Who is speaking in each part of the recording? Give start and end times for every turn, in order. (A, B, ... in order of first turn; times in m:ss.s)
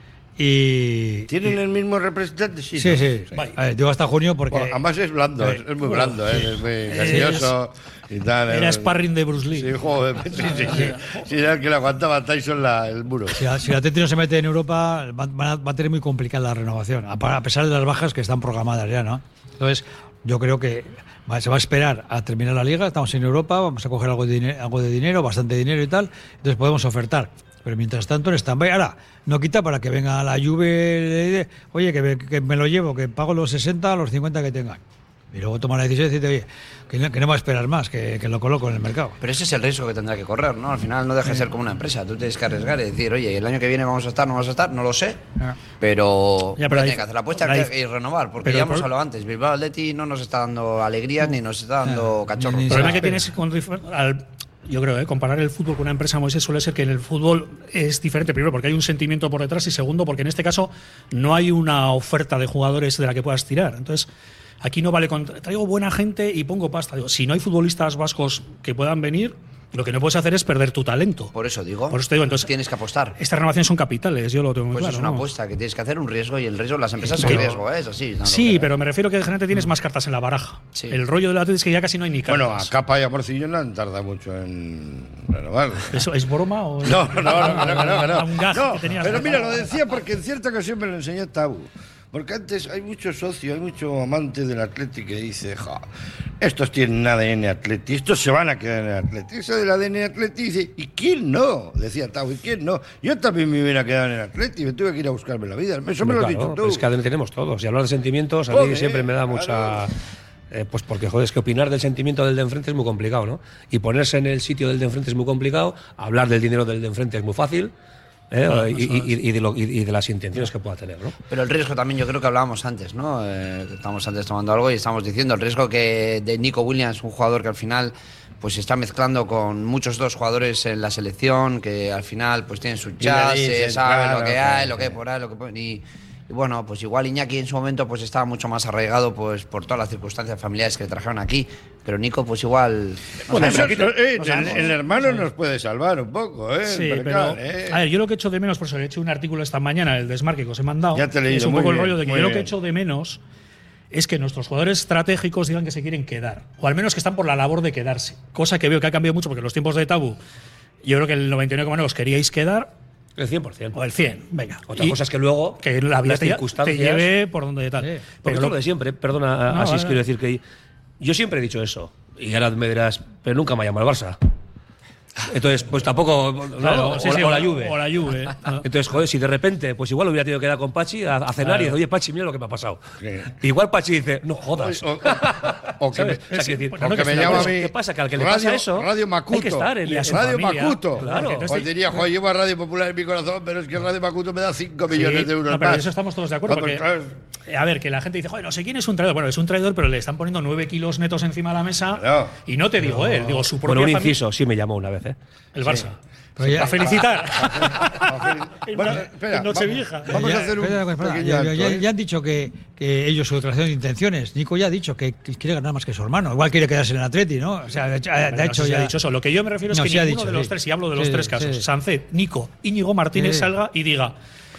0:00.4-0:01.3 A
0:01.3-0:03.2 B
0:02.8-0:04.8 A
0:04.5-0:09.0 B
0:05.4-0:05.6 A
0:06.9-0:07.5 C
0:08.5-0:09.7 C
0:09.5-0:13.4 B
0:10.3-0:11.3 C
0:10.6-0:10.9 A
0:13.4-0:34.8 A
0:35.3-0:39.2 A
0:39.2-0:45.2 D
0:45.8-0:53.2 D
0:46.6-0:47.7 C
0:48.4-0:48.9 C
0:51.8-0:53.3 A
0:52.7-1:04.1 C
1:04.6-1:11.3 C
1:11.3-1:13.2 D
1:11.9-1:12.5 C
1:13.2-1:15.2 C
1:14.7-1:18.7 D
1:17.0-1:17.6 C
1:18.2-1:22.7 C
1:22.3-1:26.0 B
1:25.9-1:29.7 C
1:26.8-1:35.8 B
1:36.4-1:46.8 B
1:46.0-1:49.9 E
1:48.5-1:49.8 B
1:50.5-1:57.7 E
1:58.3-2:01.1 E
2:01.3-2:24.7 D
2:13.0-2:15.0 B
2:23.3-2:27.8 B
2:23.3-2:23.9 E
2:26.6-2:33.2 C
2:30.9-2:32.5 B
2:33.9-2:40.2 C
2:40.8-2:42.7 C
2:43.2-2:43.8 E
2:43.7-2:45.0 C
2:44.7-2:47.1 E
2:45.6-2:48.6 C
2:48.2-2:50.4 E
2:49.5-2:50.0 C
2:51.0-2:54.2 E
2:55.2-2:57.8 E
2:56.6-2:58.6 C
2:58.6-3:02.8 E
3:01.4-3:01.8 C
3:03.0-3:03.3 B
3:03.4-3:10.4 E
3:04.6-3:06.2 B
3:06.3-3:07.5 C
3:06.8-3:15.9 B
3:09.8-3:11.7 C
3:11.0-3:11.5 E
3:14.9-3:16.8 C
3:16.4-3:17.1 B
3:17.5-3:24.2 C
3:21.9-3:22.3 B
3:22.9-3:23.3 A
3:23.6-3:25.2 E
3:25.5-3:30.2 C
3:26.4-3:27.0 A
3:26.6-3:31.8 B
3:30.1-3:38.9 A
3:38.2-3:44.2 C
3:39.7-3:41.6 A
3:43.1-3:43.5 A